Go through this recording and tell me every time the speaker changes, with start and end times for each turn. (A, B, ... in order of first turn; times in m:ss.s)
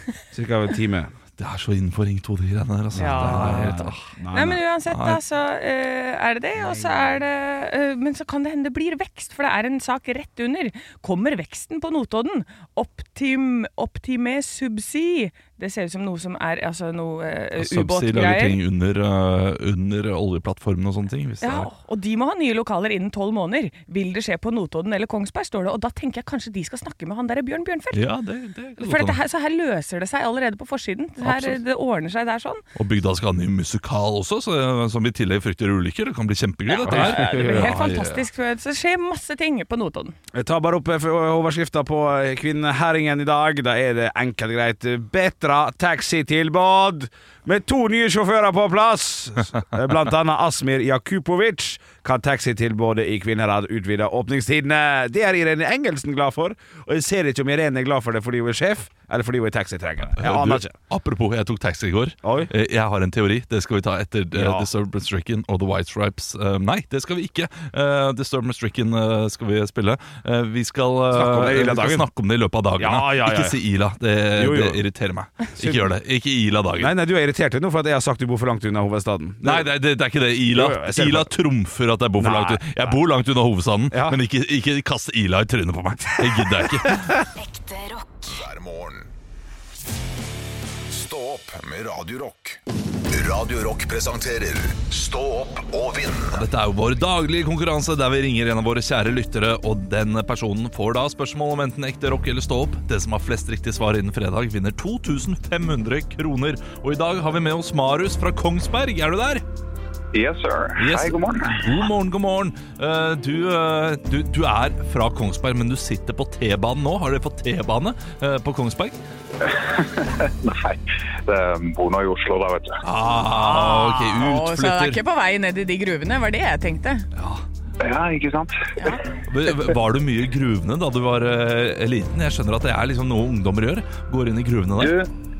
0:00.3-0:01.1 A
0:01.4-0:04.1 B
0:03.0-0:04.6 A
0:03.0-0:18.6 C
0:04.9-0:05.2 B
0:06.6-0:07.2 A
0:17.6-0:21.7 B
0:21.4-0:28.0 C
0:27.9-0:29.2 B
0:28.8-0:32.6 C
0:31.2-0:31.6 B
0:32.8-0:38.2 B
0:36.7-0:40.2 C
0:36.8-0:37.8 A
0:40.3-1:00.8 A
1:00.2-1:17.0 B
1:02.2-1:02.5 A
1:04.3-1:04.7 A
1:11.1-1:12.1 A
1:12.8-1:13.6 A
1:14.4-1:14.8 A
1:15.6-1:15.9 A
1:16.8-1:19.7 A
1:19.4-1:27.3 B
1:20.5-1:21.3 A
1:22.2-1:23.0 A
1:23.9-1:24.2 A
1:27.5-1:29.1 D
1:30.9-1:36.5 D
1:36.3-1:49.4 B
1:50.1-1:51.7 E
1:50.8-1:59.0 B
1:59.4-2:02.8 E
2:02.8-2:05.0 B
2:03.2-2:07.1 C
2:07.2-2:07.4 B
2:07.8-2:09.0 E
2:09.3-2:15.0 B
2:14.8-2:15.1 E